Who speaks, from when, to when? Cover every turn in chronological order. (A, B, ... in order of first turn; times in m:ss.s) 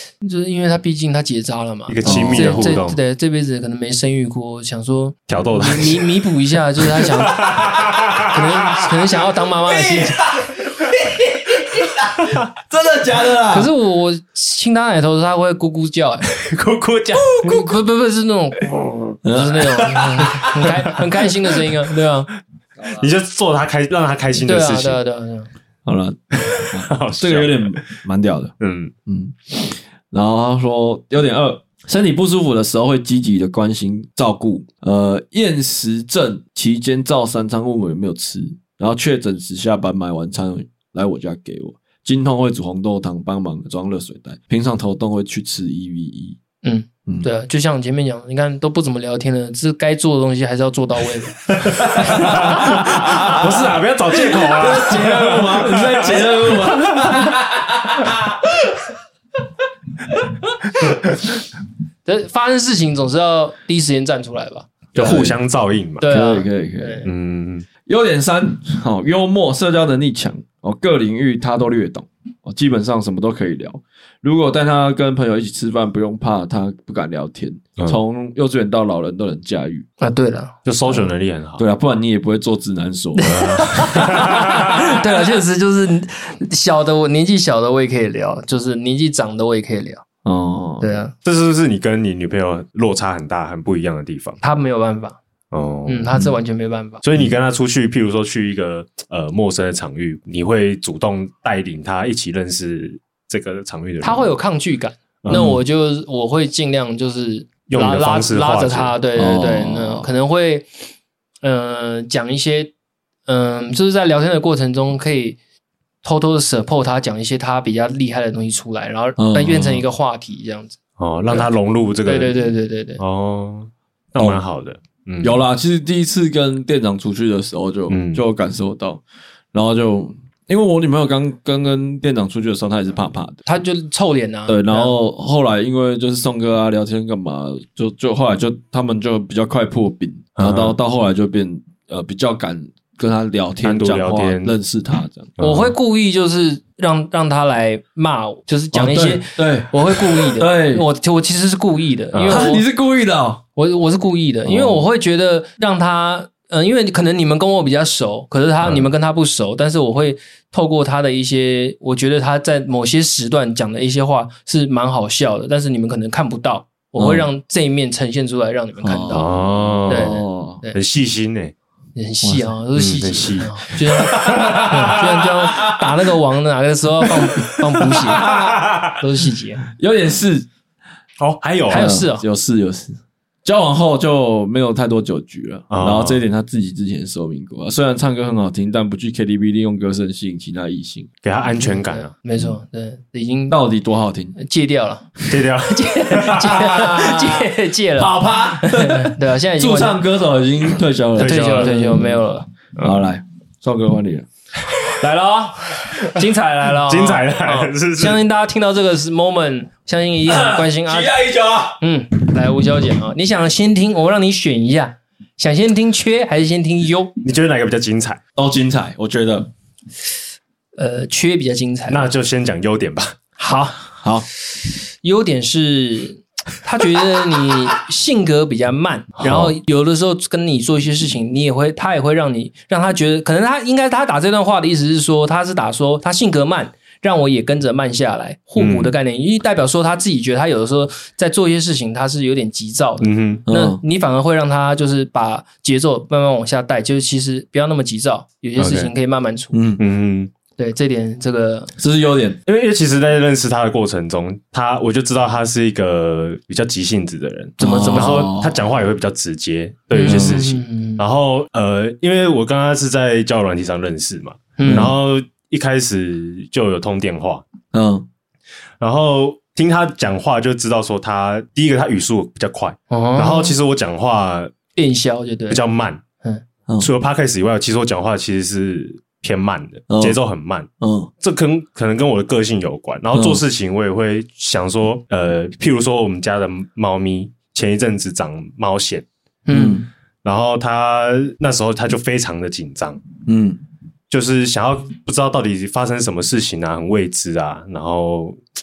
0:00.2-0:07.5 A
0:01.9-0:03.0 B
0:02.0-0:02.8 C
0:05.3-0:06.1 B
0:07.0-0:08.8 B
0:08.2-0:10.2 A
0:09.7-0:13.7 C
0:12.2-0:12.5 B
0:13.5-0:16.3 A
0:16.3-0:17.7 B
0:17.4-0:18.8 A
0:19.2-0:20.2 C
0:19.3-0:22.3 A
0:19.6-0:20.9 B
0:22.8-0:25.0 B
0:24.4-0:25.5 A
0:25.8-0:28.5 C
0:26.4-0:28.0 B
0:28.6-0:28.9 B
0:29.1-0:46.4 C
0:46.6-0:52.8 A
0:51.9-0:58.7 C
0:52.1-0:57.2 B
1:00.1-1:01.0 C
1:02.1-1:05.3 A
1:05.0-1:05.4 C
1:05.0-1:06.1 B
1:06.0-1:07.1 A
1:06.0-1:07.0 C
1:07.0-1:07.7 B
1:07.9-1:19.9 C
1:20.0-1:20.6 A
1:20.7-1:21.6 B
1:21.6-1:24.0 C
1:23.2-1:30.0 A
1:23.2-1:25.0 B
1:30.2-1:31.0 C
1:30.8-1:31.1 A
1:31.2-1:34.4 B
1:34.4-1:35.2 A
1:35.5-1:36.2 B
1:35.9-1:37.0 A
1:37.0-1:44.3 B
1:44.0-1:50.7 A
1:45.2-1:45.6 B
1:47.7-1:49.0 B
1:49.2-1:50.1 C
1:51.4-1:52.7 A
1:53.3-1:55.4 A
1:56.0-2:01.5 A
1:59.2-1:59.8 C
2:01.0-2:02.4 B
2:02.1-2:03.0 A
2:03.0-2:05.4 B
2:05.2-2:09.0 C
2:07.9-2:08.2 B
2:09.5-2:13.5 C
2:13.5-2:14.9 A
2:14.5-2:25.4 C
2:20.4-2:20.8 B
2:23.6-2:24.5 B
2:25.4-2:25.8 B
2:25.4-2:32.6 A
2:28.7-2:30.8 C
2:32.1-2:32.5 B
2:32.3-2:33.4 C
2:33.6-2:50.8 A
2:34.4-2:34.8 C
2:47.0-2:47.3 C
2:48.8-2:50.6 C
2:49.1-2:50.2 B
2:50.7-2:51.5 B
2:52.0-2:58.3 A
2:52.2-2:52.5 C
2:52.8-2:55.2 B
2:57.9-2:58.9 B
2:58.0-2:58.8 C
2:59.0-2:59.6 A
2:59.7-3:00.5 C
3:01.2-3:01.9 B
3:01.7-3:02.2 A
3:01.7-3:11.1 C
3:05.7-3:06.2 B
3:11.2-3:12.1 B
3:11.6-3:13.6 A
3:13.5-3:14.4 C
3:14.4-3:20.0 A
3:15.3-3:16.9 B
3:16.4-3:22.2 C
3:21.2-3:21.7 B
3:21.2-3:22.5 A
3:22.8-3:23.0 B
3:22.8-3:24.3 C
3:25.0-3:31.2 A
3:26.8-3:28.2 B
3:30.3-3:31.8 C
3:31.8-3:37.1 A
3:37.2-3:38.2 B
3:38.4-3:39.5 C
3:40.8-3:42.1 A
3:41.9-3:43.2 B
3:43.4-3:43.8 A
3:44.0-3:44.3 C
3:45.0-4:09.6 A
3:58.6-3:58.9 B
4:03.0-4:03.4 B
4:03.5-4:03.8 C
4:08.6-4:08.9 B
4:09.5-4:09.8 C
4:09.8-4:10.3 B
4:10.6-4:11.7 A
4:11.8-4:12.4 C
4:12.5-4:27.4 B
4:17.6-4:18.6 C
4:17.6-4:18.3 A
4:19.9-4:21.0 A
4:20.0-4:20.4 C
4:24.6-4:24.9 A
4:24.6-4:25.0 C
4:27.7-4:28.1 C
4:28.8-4:34.5 B
4:32.9-4:33.6 A
4:34.8-4:35.6 A
4:35.5-4:36.0 B
4:36.8-4:40.7 B
4:39.9-4:40.2 C
4:40.8-4:41.1 C
4:41.2-4:49.0 B
4:43.1-4:43.4 C
4:49.5-4:49.9 A
4:49.5-4:49.9 C
4:50.2-4:53.0 B
4:53.3-4:53.6 C
4:54.1-4:58.4 B